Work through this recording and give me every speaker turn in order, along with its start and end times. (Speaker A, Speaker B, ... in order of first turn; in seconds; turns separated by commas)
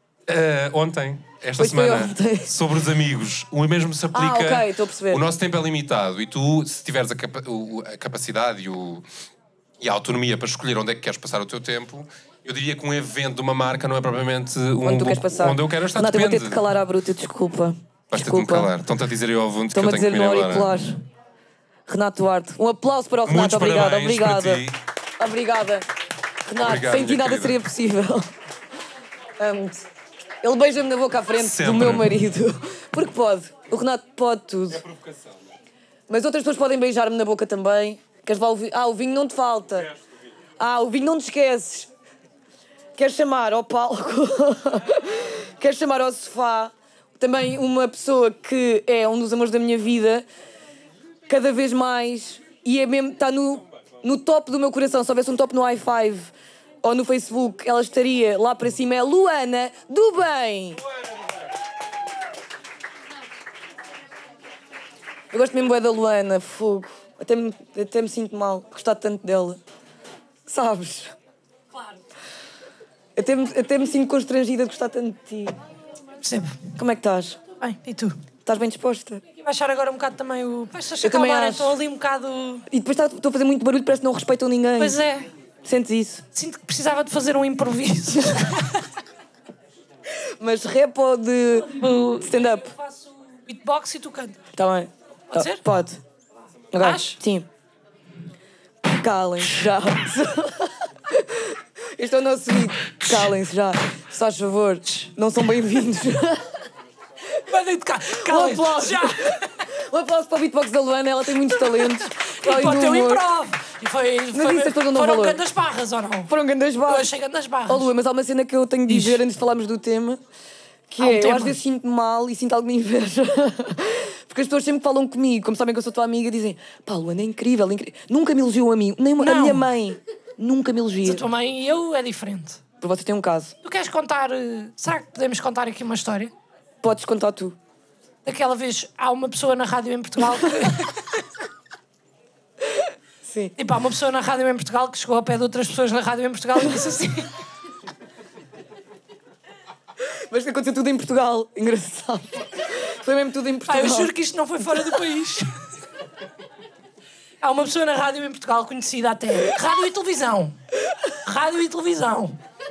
Speaker A: 0.3-9.0, Speaker B: 1.6-2.5, Speaker B: 4.1-5.2, Speaker A: 9.8-16.6, Speaker B: 14.8-18.7, Speaker A: 18.1-20.7, Speaker B: 19.7-20.9, Speaker B: 21.9-24.6, Speaker A: 23.2-24.8, Speaker B: 25.2-25.9, Speaker B: 26.5-28.3, Speaker A: 26.6-27.6, Speaker B: 29.4-29.8, Speaker B: 30.4-34.8, Speaker A: 31.4-32.2, Speaker B: 36.1-39.9, Speaker B: 40.6-41.9, Speaker B: 43.0-50.2, Speaker B: 51.3-56.3, Speaker B: 56.8-60.8, Speaker B: 65.3-69.6, Speaker B: 70.5-71.1, Speaker B: 73.2-75.5, Speaker C: 76.2-76.6, Speaker B: 76.8-77.4, Speaker C: 77.6-78.2, Speaker B: 78.4-79.2, Speaker C: 79.3-82.7, Speaker B: 81.0-81.8, Speaker B: 82.7-85.0, Speaker C: 84.8-85.3, Speaker B: 85.6-86.2, Speaker C: 86.3-88.8, Speaker B: 90.4-92.7, Speaker C: 91.7-94.4, Speaker B: 94.5-96.0, Speaker C: 95.3-95.6, Speaker B: 96.7-97.5, Speaker C: 96.8-97.2, Speaker B: 98.8-106.6, Speaker C: 103.0-103.3, Speaker C: 107.5-109.5, Speaker B: 108.2-113.3, Speaker C: 111.6-116.3, Speaker B: 114.3-115.4, Speaker B: 116.3-117.1, Speaker C: 116.8-117.9, Speaker B: 117.7-120.2, Speaker C: 118.9-119.2, Speaker B: 120.9-131.2, Speaker C: 121.0-121.6, Speaker C: 129.2-129.7, Speaker C: 131.0-132.6, Speaker B: 132.8-133.5, Speaker C: 133.6-136.3, Speaker B: 136.8-137.6, Speaker C: 138.2-141.0, Speaker B: 143.2-143.5, Speaker C: 143.6-147.3, Speaker B: 150.3-154.1, Speaker C: 153.7-155.5, Speaker C: 157.4-160.6, Speaker C: 161.2-162.4